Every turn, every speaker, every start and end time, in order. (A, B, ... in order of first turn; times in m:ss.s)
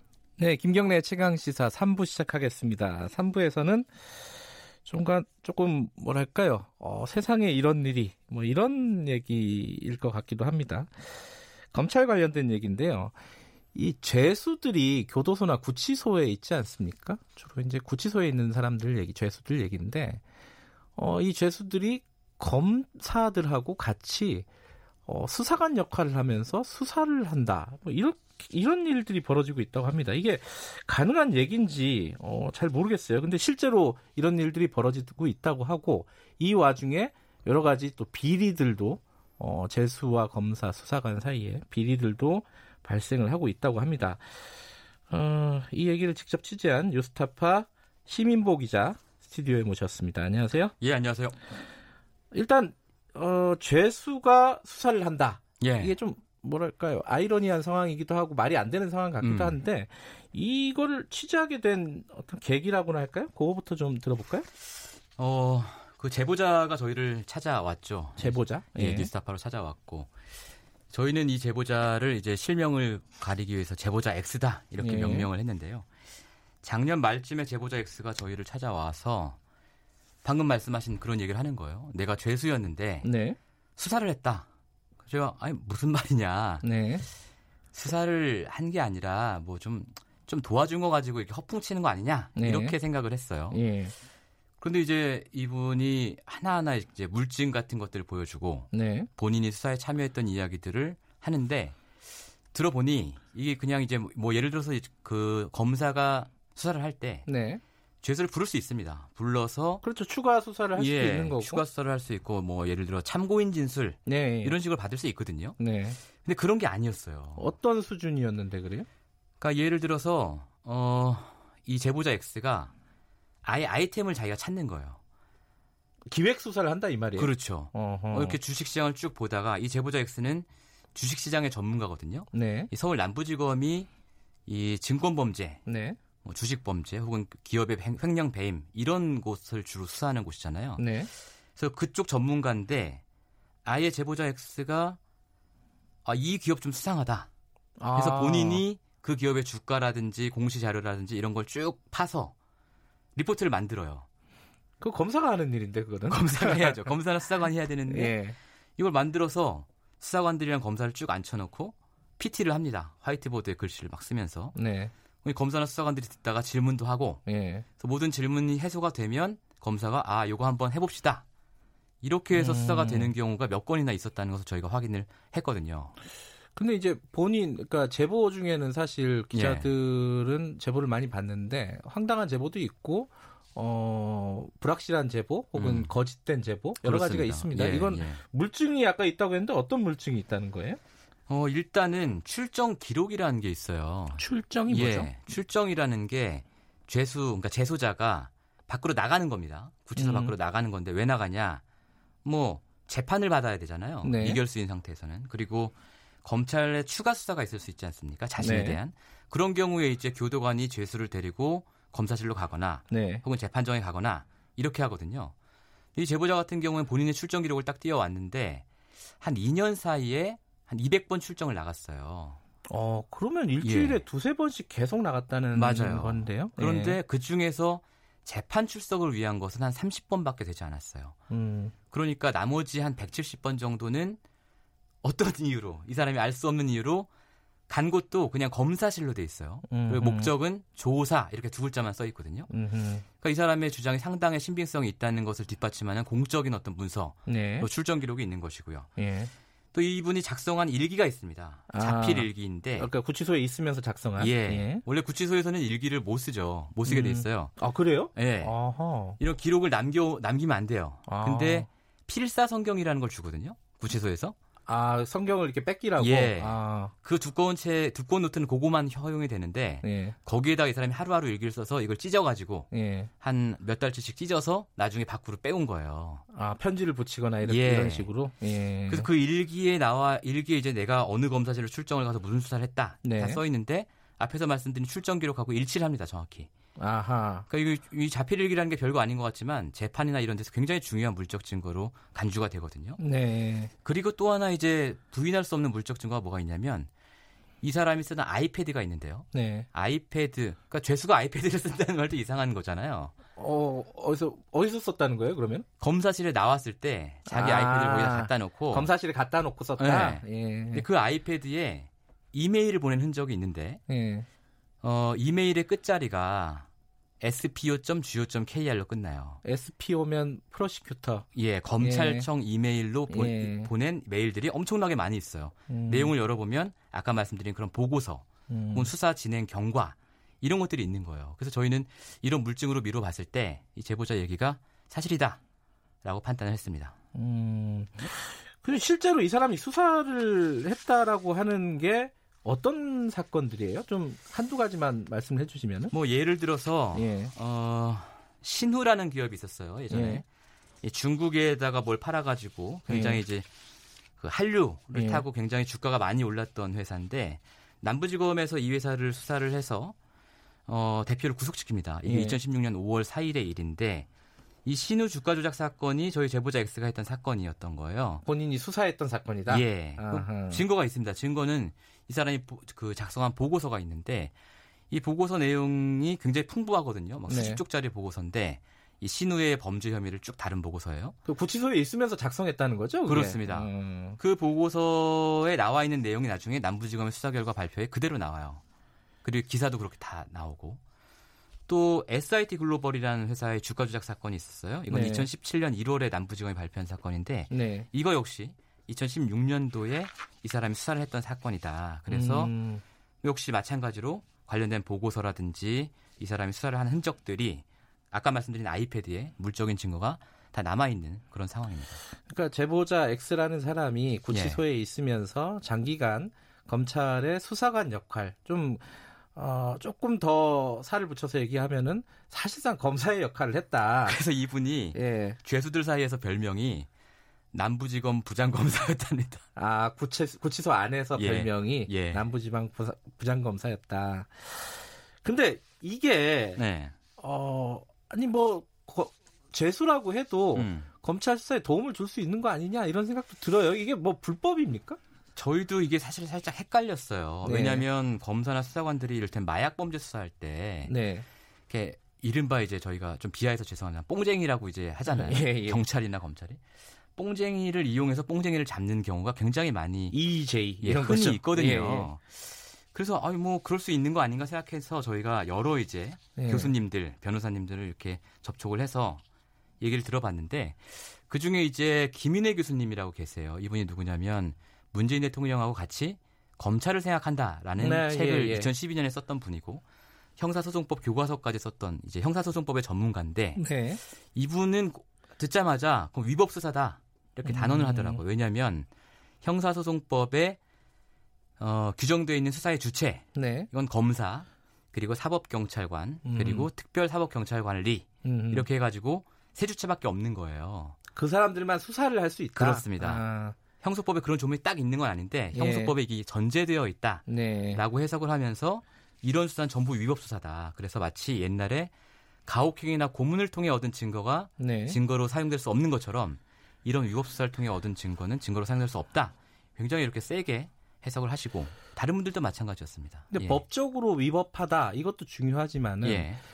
0:00.4-0:03.9 A
0:04.8-0:11.2 A
0:11.7-0:13.1 A
0:13.7-0:20.2 A
0:21.0-0:24.4 A
0:25.0-0:44.4 A
0:45.1-0:50.7 A
0:50.8-0:51.4 B
0:52.3-1:04.5 A
0:55.6-0:56.0 B
0:59.2-0:59.6 B
1:05.2-1:10.1 B
1:08.2-1:09.1 A
1:10.9-1:15.9 B
1:14.8-1:15.3 A
1:16.6-1:19.4 B
1:20.2-1:23.1 B
1:23.0-1:23.4 A
1:23.8-1:24.5 B
1:25.0-1:26.6 B
1:26.6-1:27.1 A
1:27.7-1:33.6 B
1:32.4-1:32.8 A
1:33.5-1:33.9 A
1:34.6-1:41.8 B
1:38.7-1:39.1 A
1:42.5-1:47.3 B
1:47.3-1:47.6 A
1:48.0-1:49.8 B
1:49.8-1:51.6 A
1:50.8-1:55.6 B
1:54.0-1:54.6 A
1:55.6-1:56.0 A
1:56.2-1:57.5 B
1:57.4-1:58.9 A
1:59.4-2:02.7 B
2:03.4-2:05.0 B
2:06.1-2:08.4 A
2:07.2-2:13.9 B
2:12.3-2:12.7 A
2:14.5-2:15.6 B
2:15.6-2:16.0 A
2:16.2-2:20.9 B
2:20.8-2:21.1 A
2:21.5-2:23.0 B
2:23.6-2:25.0 B
2:26.0-2:27.3 B
2:27.8-2:28.6 A
2:27.9-2:32.3 B
2:33.1-2:34.0 B
2:34.8-2:36.8 A
2:36.1-2:38.2 B
2:37.9-2:38.4 A
2:38.8-2:44.6 B
2:44.5-2:44.9 A
2:45.2-2:47.2 B
2:47.2-2:47.6 A
2:47.8-2:51.2 B
2:52.0-2:55.9 B
2:52.3-2:53.1 A
2:56.6-3:10.8 A
2:59.3-2:59.7 B
3:05.5-3:05.9 B
3:06.8-3:08.2 B
3:11.3-3:21.6 B
3:14.2-3:15.1 A
3:20.0-3:20.4 A
3:22.2-3:35.3 B
3:24.0-3:24.4 A
3:28.4-3:28.8 A
3:32.9-3:33.2 A
3:35.9-3:38.6 B
3:39.2-3:42.4 B
3:42.7-3:47.0 A
3:43.6-3:44.0 B
3:45.5-3:51.2 B
3:51.3-3:51.7 A
3:51.9-3:54.2 B
3:55.0-3:57.1 B
3:57.7-4:02.5 B
3:59.7-4:00.3 A
4:02.5-4:03.0 A
4:03.2-4:08.9 B
4:07.3-4:07.7 A
4:09.0-4:09.3 A
4:09.7-4:12.9 B
4:11.7-4:14.8 A
4:14.2-4:17.5 B
4:16.8-4:19.2 A
4:18.1-4:18.6 B
4:19.2-4:24.4 B
4:21.0-4:21.7 A
4:24.6-4:26.9 A
4:26.0-4:32.7 B
4:29.8-4:30.2 A
4:32.7-4:33.1 A
4:33.2-4:36.2 B
4:36.3-4:39.1 A
4:37.4-4:38.3 B
4:38.9-4:46.5 B
4:43.0-4:43.4 A
4:46.8-4:47.5 A
4:47.5-4:53.0 B
4:53.0-4:53.7 A
4:53.8-4:56.9 B
4:57.6-5:03.1 B
4:59.3-4:59.7 A
5:03.4-5:05.6 A
5:05.8-5:08.9 B
5:07.2-5:10.8 A
5:09.8-5:13.8 B
5:13.9-5:14.2 A
5:14.8-5:16.7 B
5:17.2-5:19.4 B
5:19.4-5:21.2 A
5:21.3-5:35.4 B
5:21.8-5:22.3 A
5:23.1-5:23.7 A
5:25.7-5:26.1 A
5:28.5-5:28.9 A
5:36.0-5:36.9 B
5:37.1-5:45.9 A
5:45.9-5:50.2 B
5:46.9-5:47.3 A
5:49.9-5:50.2 A
5:50.8-5:53.5 B
5:52.9-5:53.2 A
5:54.2-5:59.9 B
5:54.9-5:55.2 A
6:00.6-6:04.1 B
6:02.0-6:02.4 A
6:04.6-6:08.2 B
6:08.2-6:10.6 A
6:09.5-6:14.3 B
6:14.9-6:21.2 B
6:17.3-6:17.6 A
6:21.2-6:24.2 A
6:23.0-6:28.6 B
6:29.2-6:30.8 B
6:31.7-6:42.5 B
6:34.9-6:35.3 A
6:37.5-6:37.9 A
6:42.1-6:42.8 A
6:43.2-6:52.0 B
6:52.1-7:04.2 A
6:54.3-6:54.6 B
7:04.0-7:06.9 B
7:04.9-7:05.4 A
7:07.5-7:09.4 B
7:09.6-7:16.6 A
7:11.2-7:12.2 B
7:16.6-7:16.9 B
7:17.2-7:25.0 A
7:20.5-7:20.9 B
7:25.3-7:30.9 B
7:27.4-7:27.8 A
7:30.8-7:31.2 A
7:31.7-7:36.6 B
7:35.1-7:35.8 A
7:37.2-7:40.2 B
7:40.1-7:42.1 A
7:40.8-7:49.2 B
7:46.4-7:46.7 A
7:49.8-7:59.8 B
7:57.8-7:58.7 A
8:00.4-8:03.6 B
8:03.6-8:04.0 A
8:04.2-8:08.9 B
8:07.4-8:08.2 A
8:09.4-8:10.6 B
8:11.6-8:21.0 B
8:13.3-8:13.7 A
8:16.2-8:16.7 A
8:18.2-8:18.7 A
8:21.1-8:23.6 A
8:22.6-8:23.2 B
8:23.8-8:31.9 B
8:25.5-8:26.0 A
8:27.3-8:27.8 A
8:32.4-8:43.6 B
8:34.6-8:35.0 A
8:43.3-8:46.3 A
8:46.0-8:46.4 B